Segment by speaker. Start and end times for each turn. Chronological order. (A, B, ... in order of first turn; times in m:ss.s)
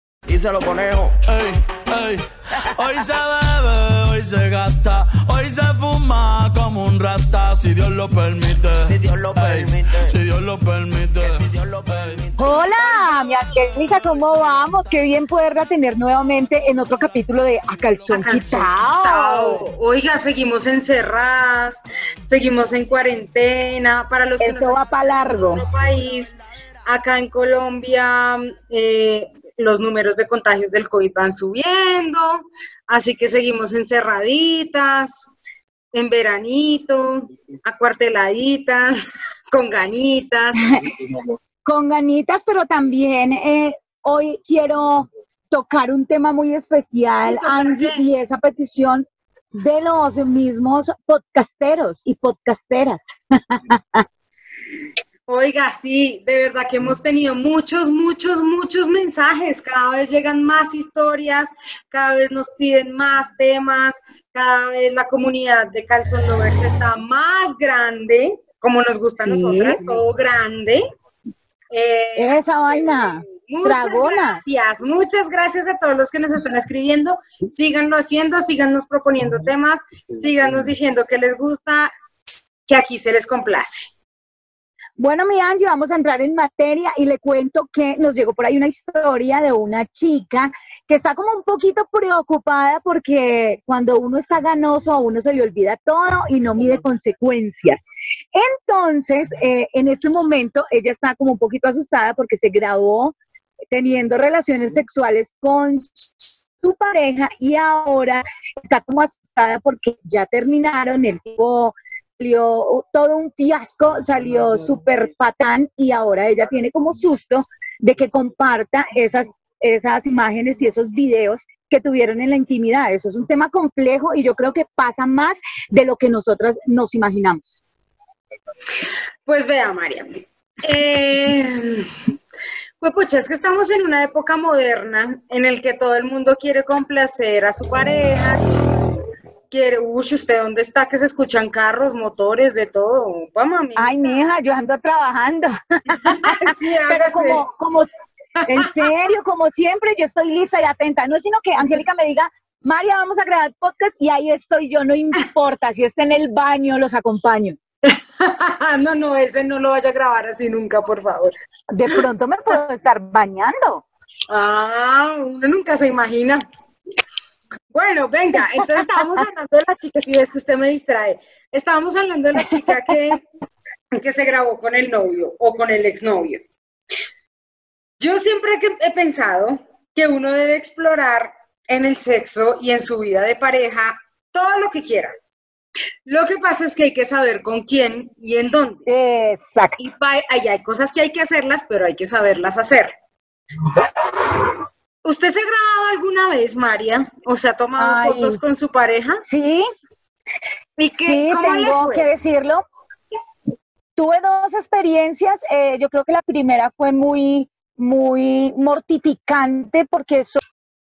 0:00.3-0:01.2 A
0:01.3-0:15.3 B
0:08.9-0:10.1 A
0:11.2-0:12.6 A
0:12.4-0:19.7 C
0:18.0-0:18.9 B
0:18.1-0:24.8 D
0:24.4-0:25.6 C
0:25.4-0:35.3 D
0:35.9-0:38.9 D
0:39.5-0:40.6 D
0:40.7-0:41.0 C
0:41.6-0:54.0 C
0:47.3-0:48.0 D
0:55.3-1:10.8 D
1:09.2-1:09.9 C
1:11.7-1:21.9 D
1:12.2-1:14.4 C
1:22.7-1:23.9 D
1:25.0-1:43.1 C
1:43.7-2:07.6 C
2:09.2-2:11.9 D
2:12.8-2:18.5 D
2:19.5-2:24.0 D
2:23.8-2:27.9 C
2:26.0-2:27.4 D
2:28.4-2:28.7 D
2:28.5-2:37.6 C
2:37.8-2:41.3 D
2:41.7-2:43.8 C
2:44.3-2:46.4 D
2:47.7-2:53.2 D
2:53.9-2:56.4 D
2:58.0-3:05.1 D
3:06.0-3:08.8 D
3:08.9-3:09.8 C
3:09.8-3:12.9 D
3:15.0-3:19.2 D
3:17.8-3:18.4 C
3:19.2-3:19.7 C
3:20.8-3:22.1 D
3:21.0-3:22.6 C
3:24.0-3:30.4 C